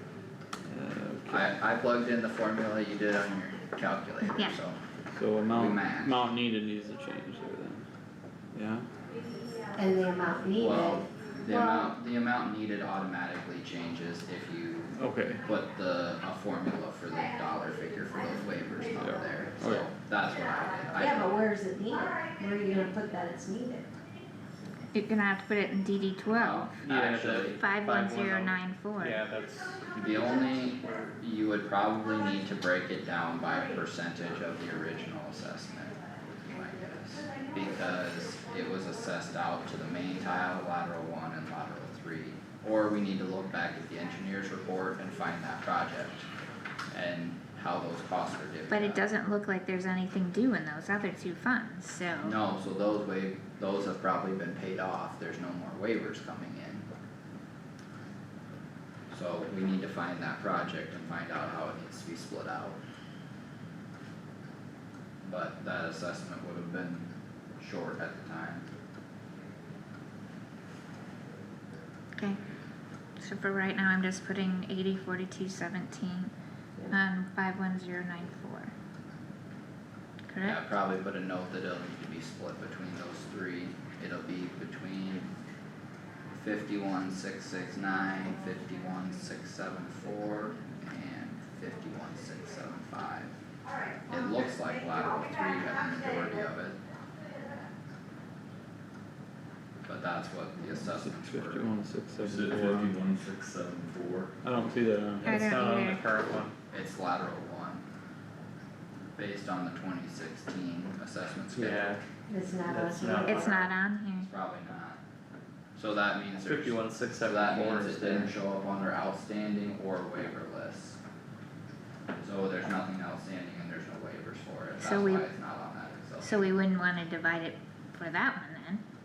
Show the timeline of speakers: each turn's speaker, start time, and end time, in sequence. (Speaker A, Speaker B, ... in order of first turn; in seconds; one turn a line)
Speaker A: 0.7-1.5
Speaker B: 1.3-4.8
Speaker A: 5.2-7.9
Speaker B: 5.5-6.2
Speaker A: 8.5-8.9
Speaker C: 9.7-11.1
Speaker B: 10.6-21.3
Speaker A: 15.0-15.4
Speaker A: 19.0-19.9
Speaker C: 21.0-23.9
Speaker D: 24.9-26.7
Speaker B: 26.3-27.6
Speaker E: 26.9-29.8
Speaker D: 27.5-29.2
Speaker B: 29.9-46.3
Speaker B: 46.9-49.1
Speaker D: 48.7-52.4
Speaker B: 52.2-56.9
Speaker B: 59.1-62.8
Speaker B: 65.2-67.1
Speaker B: 67.6-68.7
Speaker D: 73.2-76.3
Speaker D: 76.9-78.7
Speaker D: 80.3-80.6
Speaker B: 80.4-85.3
Speaker B: 86.3-93.3
Speaker B: 94.1-96.8
Speaker B: 99.9-101.7
Speaker A: 100.8-103.1
Speaker F: 102.2-104.4
Speaker A: 104.4-105.3
Speaker E: 105.2-106.5
Speaker D: 105.2-106.0
Speaker B: 106.7-107.8
Speaker B: 109.2-112.0
Speaker E: 111.5-112.0
Speaker C: 112.3-113.7
Speaker E: 112.7-113.4
Speaker D: 113.2-114.3
Speaker B: 114.1-115.0
Speaker B: 115.8-121.0
Speaker E: 116.4-118.3
Speaker B: 122.2-126.4
Speaker D: 124.8-125.2
Speaker D: 126.2-128.8